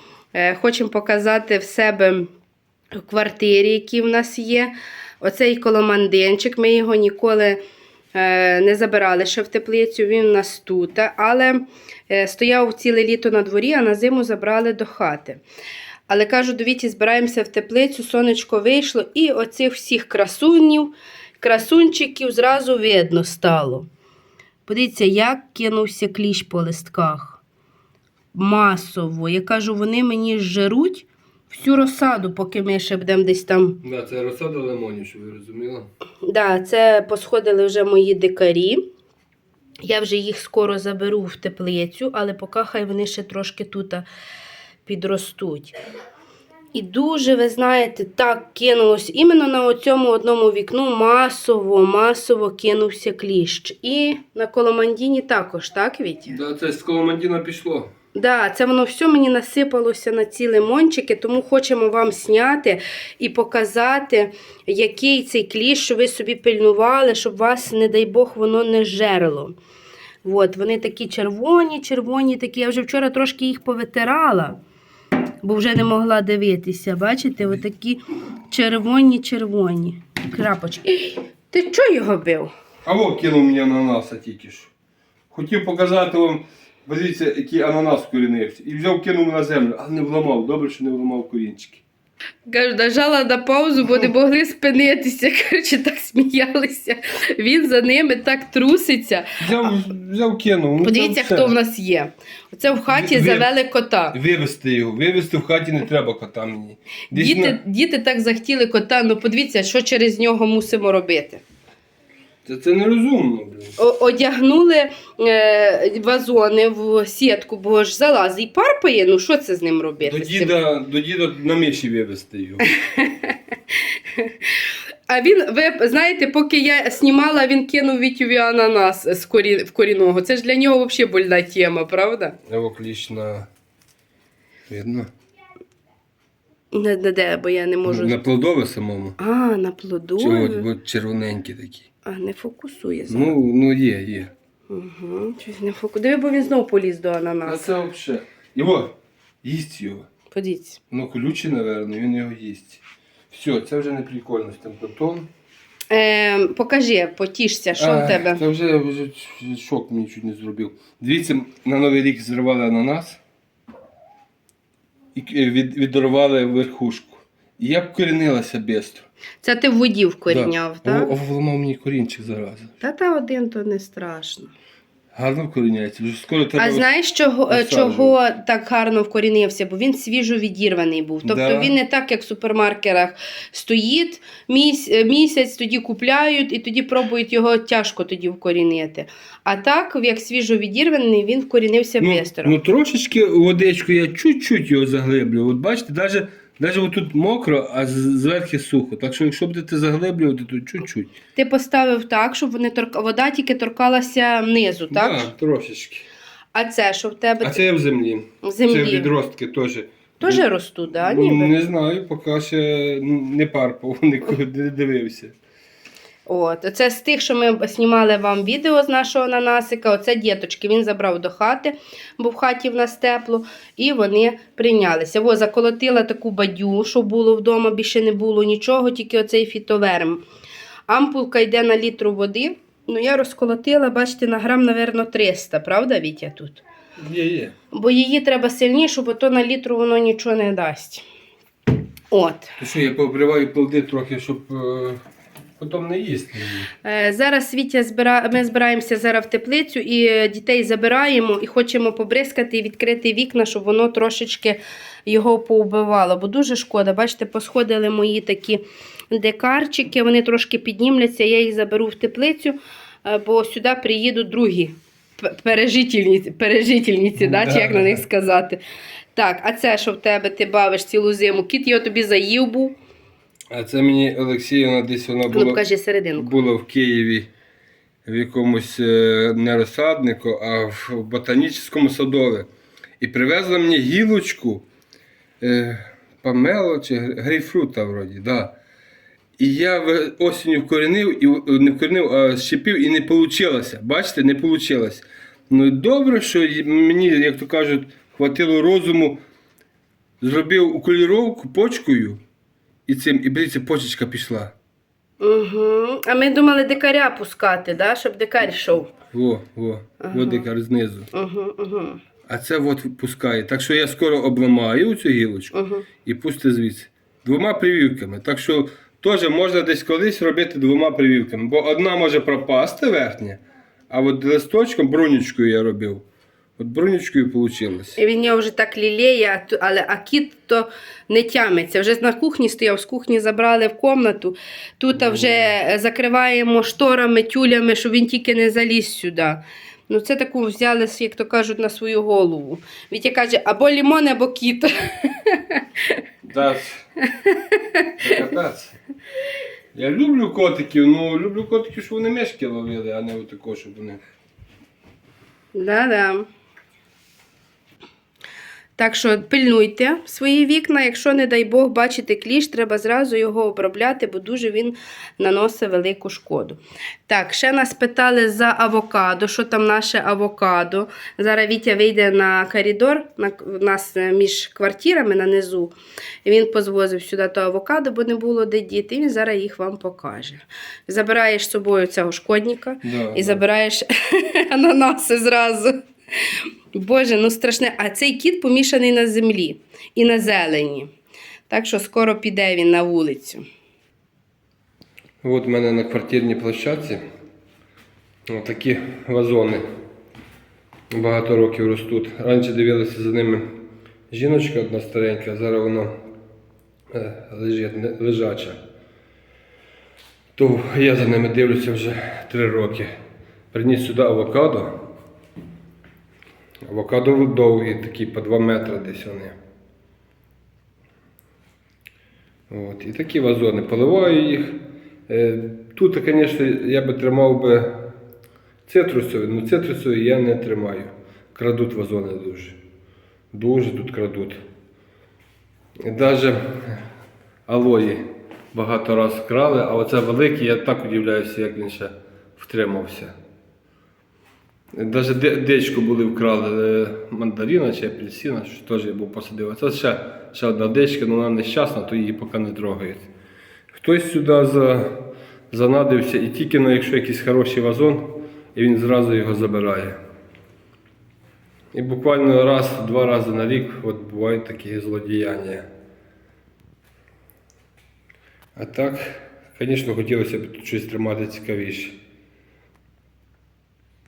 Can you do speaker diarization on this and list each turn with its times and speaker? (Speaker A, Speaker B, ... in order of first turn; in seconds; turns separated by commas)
Speaker A: 0.3-2.3, Speaker A: 2.9-7.6, Speaker A: 8.1-15.4, Speaker A: 16.1-23.9, Speaker A: 24.6-27.4, Speaker A: 28.3-33.8, Speaker B: 33.8-35.9, Speaker A: 36.2-38.8, Speaker A: 39.8-44.0, Speaker A: 44.9-45.8, Speaker A: 46.7-56.4, Speaker B: 56.3-57.9, Speaker A: 58.1-69.6, Speaker A: 70.2-74.6, Speaker A: 75.4-82.5, Speaker B: 82.8-84.7, Speaker B: 85.3-91.8, Speaker A: 92.5-99.7, Speaker B: 99.4-101.5, Speaker A: 100.8-104.2, Speaker B: 102.9-103.5, Speaker B: 104.1-107.6, Speaker A: 107.1-111.4, Speaker B: 112.4-113.8, Speaker A: 113.8-120.5, Speaker B: 120.0-122.7, Speaker A: 122.7-123.4, Speaker A: 124.1-132.4, Speaker B: 132.5-133.5, Speaker B: 134.7-135.1, Speaker A: 136.7-138.2, Speaker B: 137.8-139.2, Speaker A: 139.2-140.7, Speaker B: 140.2-141.9, Speaker A: 142.0-143.3, Speaker B: 143.1-144.3, Speaker A: 144.7-147.7, Speaker B: 147.4-150.1, Speaker A: 150.3-150.8, Speaker B: 150.9-155.3, Speaker A: 155.9-158.4, Speaker B: 157.8-163.2, Speaker B: 165.1-169.1, Speaker A: 169.4-171.1, Speaker B: 170.3-172.7, Speaker A: 172.8-174.5, Speaker B: 175.1-176.8, Speaker A: 176.6-192.6, Speaker B: 177.5-178.2, Speaker B: 181.2-181.7, Speaker B: 192.0-201.1, Speaker A: 201.3-205.3, Speaker B: 204.9-206.1, Speaker A: 206.5-207.6, Speaker B: 207.4-215.3, Speaker A: 208.4-209.1, Speaker A: 210.2-211.5, Speaker A: 216.3-230.2, Speaker A: 230.9-236.6, Speaker B: 237.0-237.5, Speaker A: 237.7-241.0, Speaker A: 242.1-242.5, Speaker B: 242.6-245.0, Speaker B: 245.6-246.7, Speaker A: 246.8-268.6, Speaker B: 267.2-268.0, Speaker A: 269.1-272.8, Speaker B: 273.5-275.6, Speaker A: 275.3-276.3, Speaker B: 276.2-277.3, Speaker B: 278.0-282.5, Speaker B: 283.0-284.6, Speaker B: 285.4-288.6, Speaker B: 289.4-299.2, Speaker B: 300.2-302.2, Speaker B: 302.9-304.5, Speaker A: 305.2-308.9, Speaker B: 309.1-311.1, Speaker A: 310.0-310.4, Speaker A: 311.1-312.0, Speaker B: 312.3-326.0, Speaker A: 315.5-315.9, Speaker B: 326.6-328.0, Speaker A: 328.0-346.0, Speaker B: 334.9-335.5, Speaker B: 346.2-346.8, Speaker A: 347.1-347.9, Speaker B: 348.0-348.7, Speaker B: 349.7-354.0, Speaker A: 355.5-356.3, Speaker A: 358.8-385.8, Speaker B: 382.8-383.4, Speaker A: 386.7-390.9, Speaker A: 391.5-393.4, Speaker B: 395.2-397.0, Speaker B: 398.3-399.6, Speaker B: 400.9-403.5, Speaker B: 404.1-405.9, Speaker B: 406.9-408.6, Speaker B: 410.4-412.9, Speaker B: 413.5-414.9, Speaker B: 416.6-419.3, Speaker B: 422.5-427.9, Speaker B: 428.7-432.6, Speaker B: 433.3-434.4, Speaker B: 435.8-436.9, Speaker B: 437.5-443.1, Speaker B: 444.7-453.1, Speaker B: 453.7-460.0, Speaker B: 461.7-465.6, Speaker B: 468.6-471.9